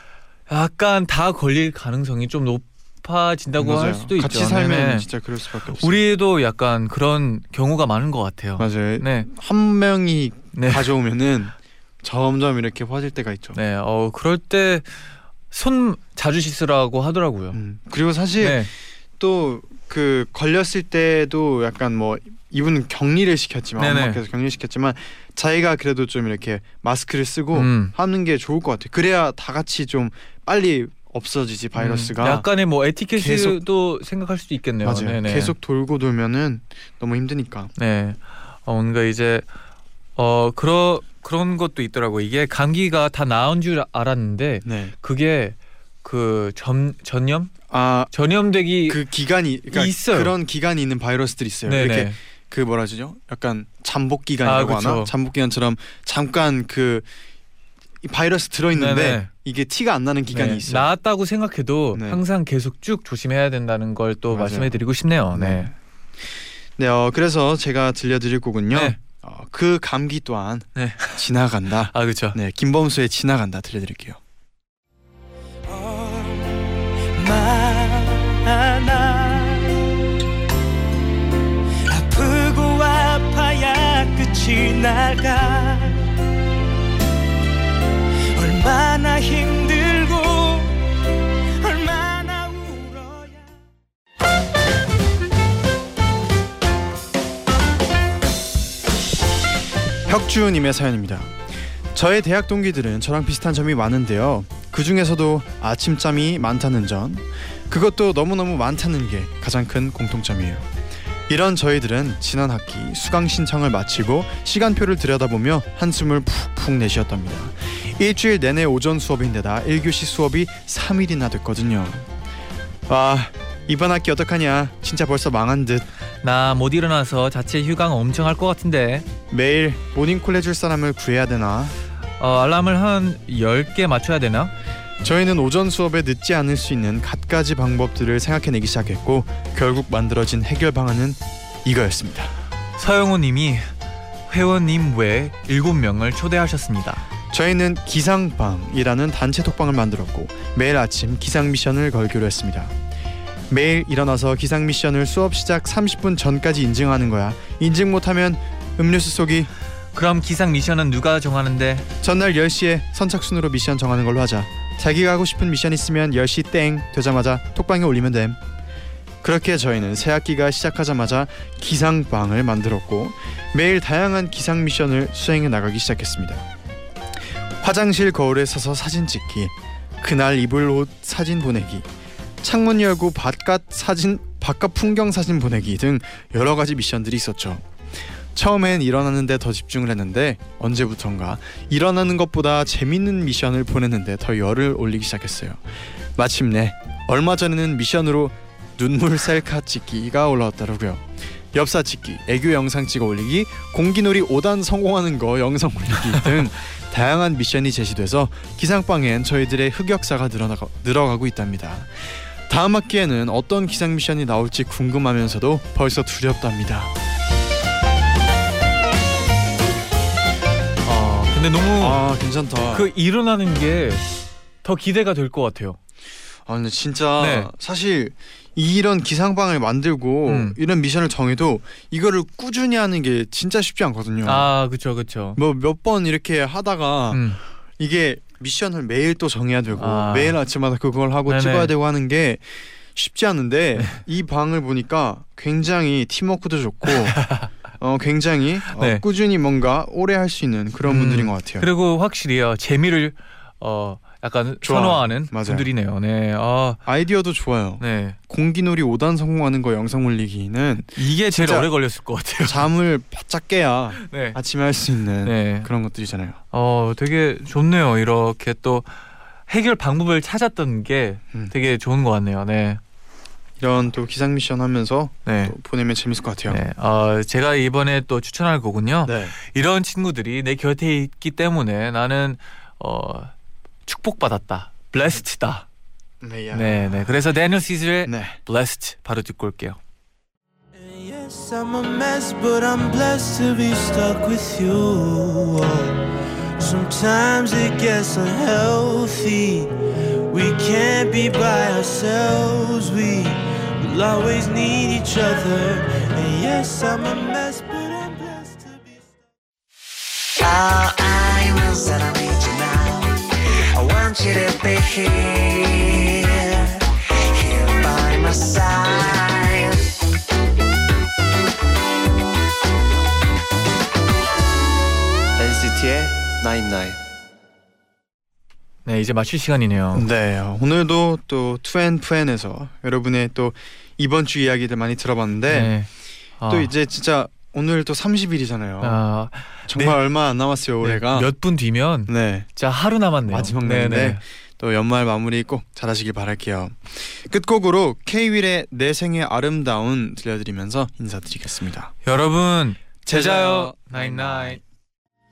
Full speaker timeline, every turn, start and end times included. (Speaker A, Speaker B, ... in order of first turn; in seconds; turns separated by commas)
Speaker A: 0.5-5.1, Speaker B: 3.6-6.0, Speaker A: 5.8-9.3, Speaker B: 8.6-13.6, Speaker A: 10.5-10.9, Speaker A: 13.6-17.6, Speaker B: 17.5-32.5, Speaker A: 18.4-18.7, Speaker A: 23.8-24.2, Speaker A: 27.5-27.9, Speaker A: 31.8-35.5, Speaker B: 33.1-33.6, Speaker B: 34.8-37.7, Speaker A: 37.8-39.5, Speaker A: 40.2-47.5, Speaker B: 44.6-44.9, Speaker B: 47.7-48.1, Speaker A: 48.1-49.0, Speaker B: 48.8-57.1, Speaker A: 49.7-50.3, Speaker A: 51.7-52.2, Speaker A: 54.4-55.1, Speaker B: 58.0-60.9, Speaker A: 58.7-59.3, Speaker A: 60.3-65.7, Speaker B: 61.9-62.2, Speaker B: 64.3-64.8, Speaker B: 65.3-65.7, Speaker B: 66.8-74.2, Speaker A: 68.7-69.0, Speaker A: 70.8-71.2, Speaker A: 71.9-72.4, Speaker C: 75.7-79.8, Speaker C: 81.9-86.0, Speaker C: 88.4-90.8, Speaker C: 91.6-93.5, Speaker B: 100.1-110.7, Speaker B: 111.3-122.1, Speaker B: 122.9-125.9, Speaker A: 126.2-129.1, Speaker B: 129.3-131.8, Speaker A: 132.2-134.5, Speaker B: 135.0-142.3, Speaker A: 142.8-143.7, Speaker A: 144.3-147.0, Speaker B: 147.3-152.8, Speaker B: 153.5-159.5, Speaker A: 159.9-161.9, Speaker B: 162.0-168.4, Speaker B: 169.2-176.4, Speaker B: 177.6-181.9, Speaker B: 182.4-195.6, Speaker B: 196.2-216.9, Speaker A: 220.8-222.0, Speaker B: 221.8-222.9, Speaker A: 222.7-224.1, Speaker A: 224.6-225.8, Speaker B: 226.5-234.5, Speaker A: 227.2-227.5, Speaker A: 230.3-230.6, Speaker A: 234.2-235.4, Speaker B: 235.4-237.3, Speaker A: 237.1-237.4, Speaker B: 237.8-247.3, Speaker A: 239.8-240.4, Speaker A: 241.3-241.7, Speaker A: 243.8-244.0, Speaker A: 246.9-247.5, Speaker B: 247.8-251.7, Speaker A: 248.7-249.0, Speaker A: 250.9-256.8, Speaker B: 254.6-255.7, Speaker B: 256.9-261.7, Speaker A: 257.8-258.2, Speaker A: 261.0-262.7, Speaker B: 262.4-266.4, Speaker A: 264.0-264.4, Speaker A: 265.2-265.7, Speaker A: 266.5-268.9, Speaker A: 269.5-272.8, Speaker B: 273.6-276.6, Speaker A: 275.3-275.6, Speaker A: 276.5-283.3, Speaker B: 279.1-279.4, Speaker A: 283.9-285.7, Speaker B: 286.2-287.0, Speaker A: 286.5-289.8, Speaker B: 288.1-288.4, Speaker C: 290.7-296.0, Speaker C: 296.6-299.8, Speaker C: 300.3-309.1, Speaker D: 310.4-319.8, Speaker D: 325.4-327.0, Speaker A: 328.9-330.1, Speaker B: 329.9-335.8, Speaker A: 335.5-335.9, Speaker A: 336.4-336.7, Speaker B: 336.5-339.0, Speaker A: 338.8-340.0, Speaker B: 339.7-341.3, Speaker A: 340.8-344.2, Speaker B: 342.1-342.5, Speaker B: 343.2-351.9, Speaker A: 352.0-354.6, Speaker B: 353.1-354.6